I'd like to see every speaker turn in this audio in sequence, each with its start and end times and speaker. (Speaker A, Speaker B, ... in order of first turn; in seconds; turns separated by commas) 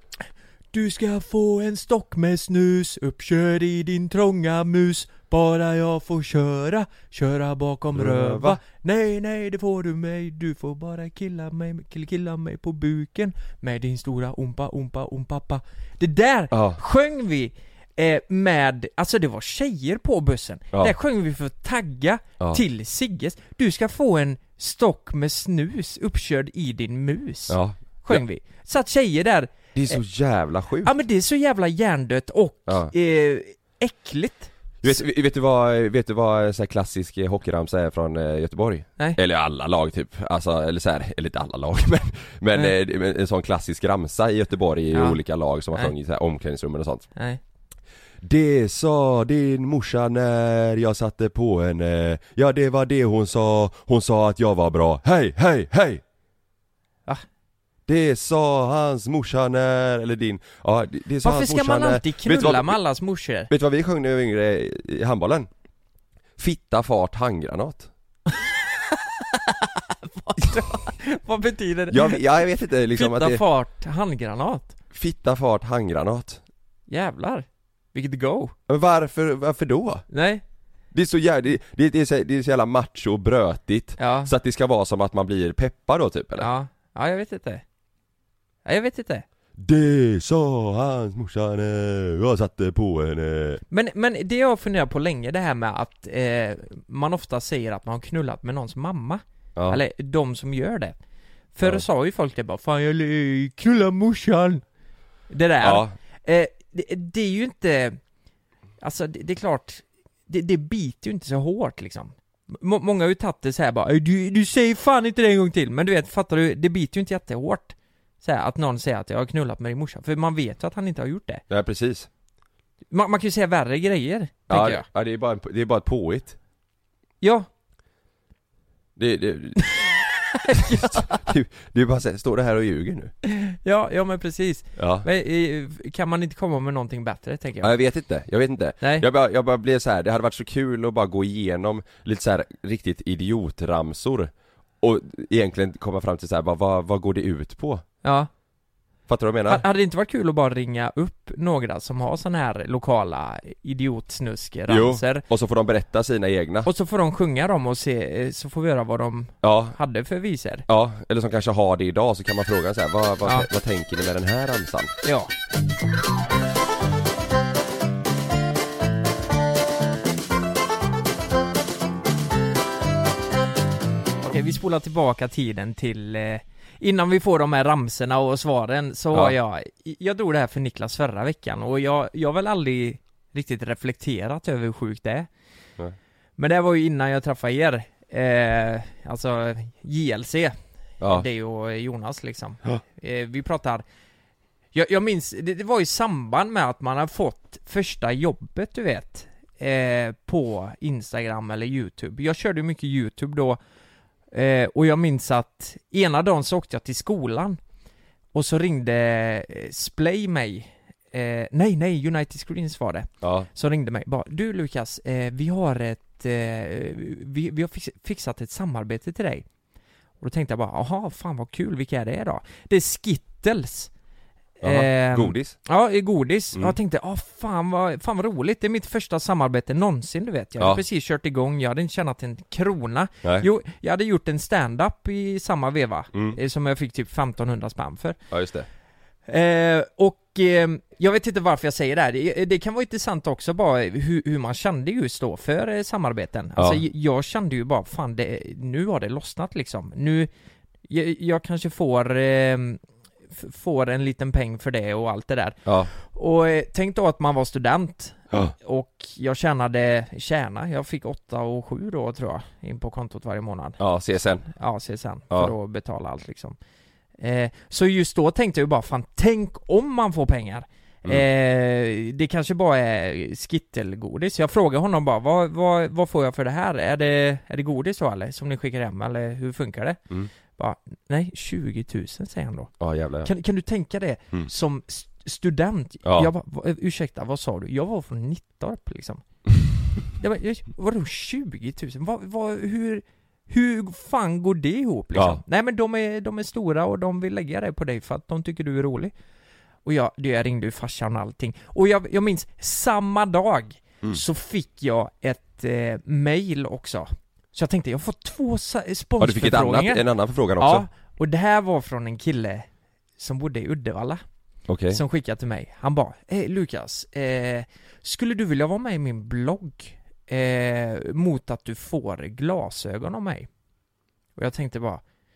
Speaker A: 0.7-30.0, Speaker B: 7.9-8.6, Speaker B: 16.5-16.8, Speaker B: 27.5-28.2, Speaker B: 29.7-30.9, Speaker A: 30.8-35.0, Speaker B: 32.7-32.9, Speaker B: 34.8-47.1, Speaker A: 44.9-45.2, Speaker B: 48.2-56.0, Speaker B: 57.9-62.8, Speaker A: 61.2-63.5, Speaker B: 63.5-65.5, Speaker B: 66.4-67.9, Speaker A: 68.4-72.2, Speaker B: 71.9-73.4, Speaker A: 72.9-74.7, Speaker B: 74.9-76.4, Speaker A: 76.9-78.5, Speaker B: 78.7-80.0, Speaker A: 80.1-80.4, Speaker B: 80.9-86.5, Speaker A: 84.0-84.3, Speaker A: 86.4-87.6, Speaker A: 88.6-89.2, Speaker B: 89.6-93.6, Speaker A: 93.7-100.9, Speaker B: 99.5-99.8, Speaker A: 101.5-104.6, Speaker A: 105.3-108.0, Speaker B: 105.6-105.9, Speaker A: 108.8-121.4, Speaker B: 121.5-122.1, Speaker A: 122.9-124.8, Speaker B: 124.5-126.4, Speaker A: 127.2-127.5, Speaker B: 129.0-129.9, Speaker A: 130.3-131.3, Speaker B: 130.6-133.1, Speaker A: 133.2-137.7, Speaker B: 134.8-135.1, Speaker B: 137.6-147.8, Speaker A: 138.8-139.1, Speaker A: 148.0-148.3, Speaker B: 149.1-149.6, Speaker A: 149.5-155.2, Speaker B: 154.7-156.7, Speaker A: 156.6-160.6, Speaker B: 159.4-159.8, Speaker B: 160.7-164.9, Speaker A: 165.0-165.3, Speaker A: 174.2-185.3, Speaker A: 186.4-193.8, Speaker B: 191.0-191.3, Speaker A: 194.7-203.6, Speaker A: 204.3-207.6, Speaker A: 208.3-219.4, Speaker B: 213.2-213.5, Speaker A: 220.2-223.9, Speaker A: 224.6-238.2, Speaker B: 224.6-225.6, Speaker B: 236.1-236.4, Speaker B: 238.3-238.7, Speaker A: 239.3-250.3, Speaker A: 250.9-252.8, Speaker A: 253.3-263.8, Speaker B: 255.6-255.9, Speaker B: 263.8-264.5, Speaker A: 264.5-266.6, Speaker A: 267.2-280.0, Speaker A: 280.6-282.7, Speaker B: 282.8-283.3, Speaker A: 283.2-289.2, Speaker B: 286.0-286.3, Speaker A: 290.2-299.1, Speaker B: 295.1-295.4, Speaker A: 299.8-310.0, Speaker B: 309.2-310.9, Speaker A: 310.6-312.7, Speaker A: 313.2-314.2, Speaker B: 314.7-315.0, Speaker A: 314.9-323.5, Speaker A: 324.4-325.0